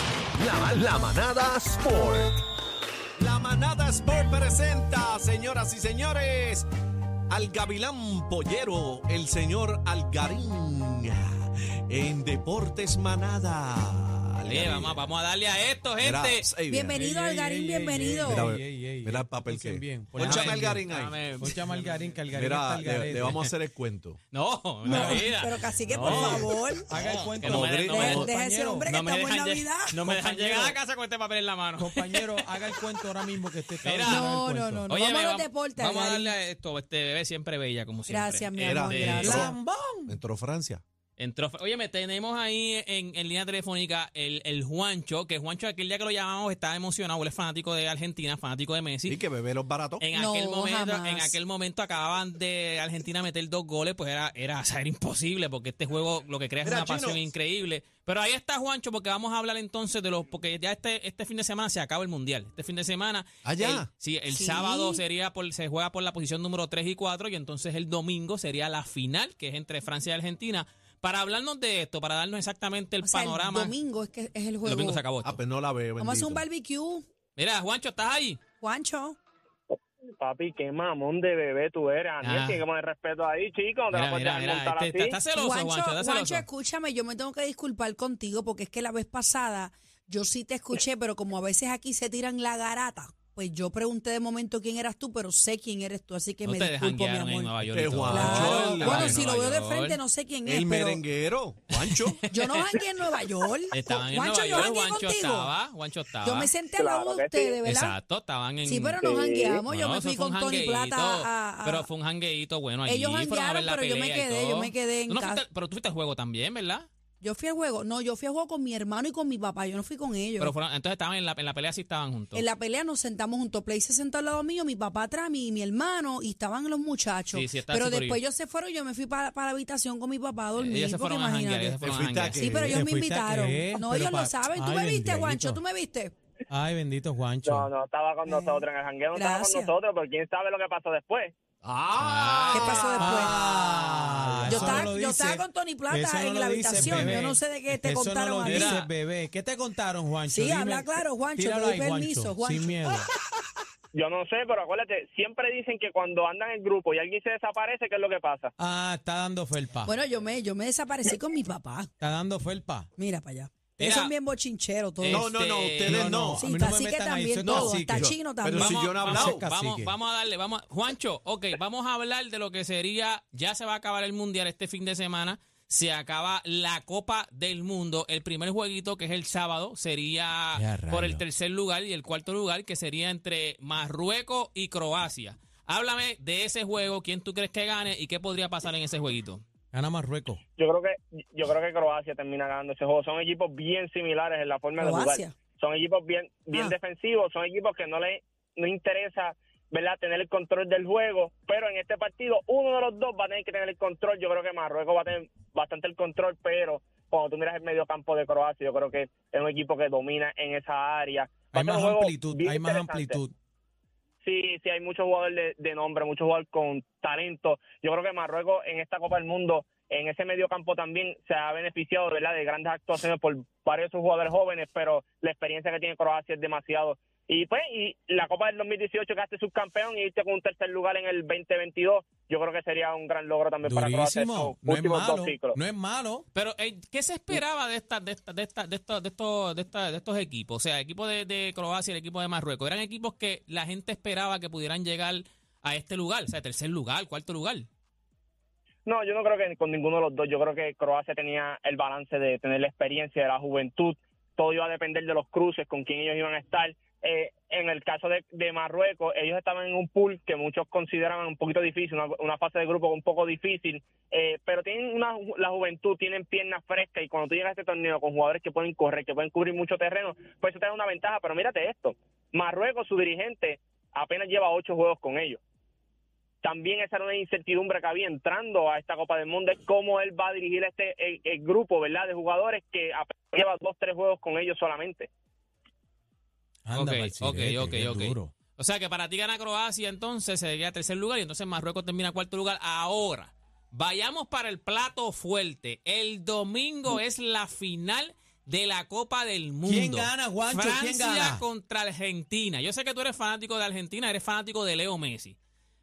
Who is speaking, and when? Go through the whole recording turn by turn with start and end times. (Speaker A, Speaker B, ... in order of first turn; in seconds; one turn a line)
Speaker A: 0.3-2.4
Speaker B: 3.2-6.7
Speaker B: 7.3-15.1
Speaker C: 14.5-16.5
Speaker B: 16.0-17.0
Speaker D: 16.7-18.4
Speaker E: 17.0-20.9
Speaker B: 18.3-21.2
Speaker C: 20.2-22.2
Speaker E: 21.4-23.3
Speaker B: 22.3-24.2
Speaker C: 23.2-23.5
Speaker C: 24.3-28.3
Speaker D: 24.9-26.9
Speaker E: 24.9-25.3
Speaker E: 26.1-26.4
Speaker E: 26.9-28.9
Speaker B: 27.4-28.3
Speaker D: 27.9-30.7
Speaker C: 28.8-33.1
Speaker E: 30.3-30.7
Speaker E: 31.8-34.9
Speaker C: 33.8-34.2
Speaker D: 34.1-36.4
Speaker C: 34.9-39.5
Speaker D: 38.1-39.5
Speaker B: 38.6-39.5
Speaker E: 39.2-40.2
Speaker B: 40.1-40.8
Speaker C: 41.2-49.2
Speaker B: 49.1-50.0
Speaker C: 50.0-73.8
Speaker D: 50.1-51.4
Speaker B: 56.6-57.2
Speaker B: 63.5-63.9
Speaker D: 64.3-65.0
Speaker D: 73.0-75.0
Speaker C: 74.7-75.4
Speaker B: 75.2-76.5
Speaker D: 76.0-77.0
Speaker C: 77.4-78.4
Speaker D: 78.6-79.2
Speaker F: 79.7-85.2
Speaker C: 82.2-82.6
Speaker C: 83.9-86.5
Speaker D: 85.3-97.5
Speaker C: 96.5-100.0
Speaker B: 97.7-99.2
Speaker D: 98.0-101.0
Speaker B: 100.5-102.2
Speaker C: 101.7-102.8
Speaker D: 102.3-105.5
Speaker C: 103.7-106.5
Speaker D: 106.2-108.0
Speaker F: 106.7-107.6
Speaker C: 107.6-109.0
Speaker D: 108.7-111.9
Speaker F: 109.0-109.6
Speaker C: 109.7-116.9
Speaker D: 112.9-115.4
Speaker D: 117.2-120.5
Speaker C: 120.4-122.4
Speaker D: 122.3-131.8
Speaker C: 127.3-128.2
Speaker C: 130.6-132.4
Speaker B: 131.8-132.8
Speaker D: 132.3-136.1
Speaker E: 132.7-135.6
Speaker E: 136.5-137.7
Speaker F: 137.4-141.3
Speaker D: 138.3-139.7
Speaker C: 141.9-144.9
Speaker A: 142.1-142.8
Speaker D: 142.5-143.4
Speaker E: 143.0-153.1
Speaker D: 144.5-148.8
Speaker C: 146.8-147.1
Speaker C: 148.4-148.9
Speaker D: 150.3-153.0
Speaker F: 153.9-158.5
Speaker E: 158.6-159.9
Speaker D: 159.8-161.9
Speaker E: 162.0-162.9
Speaker D: 163.0-165.3
Speaker C: 163.8-164.1
Speaker C: 165.0-166.4
Speaker B: 165.1-166.4
Speaker E: 166.4-168.1
Speaker D: 166.4-168.8
Speaker B: 167.9-169.4
Speaker C: 168.5-189.4
Speaker E: 169.0-169.9
Speaker E: 180.6-181.2
Speaker E: 189.7-190.4
Speaker F: 190.6-213.2
Speaker D: 194.8-195.3
Speaker E: 211.5-213.3
Speaker F: 214.2-235.6
Speaker E: 233.6-236.3
Speaker C: 236.3-247.7
Speaker F: 248.9-275.4
Speaker F: 276.4-285.1
Speaker E: 286.7-288.3
Speaker C: 286.7-305.4
Speaker E: 299.6-301.4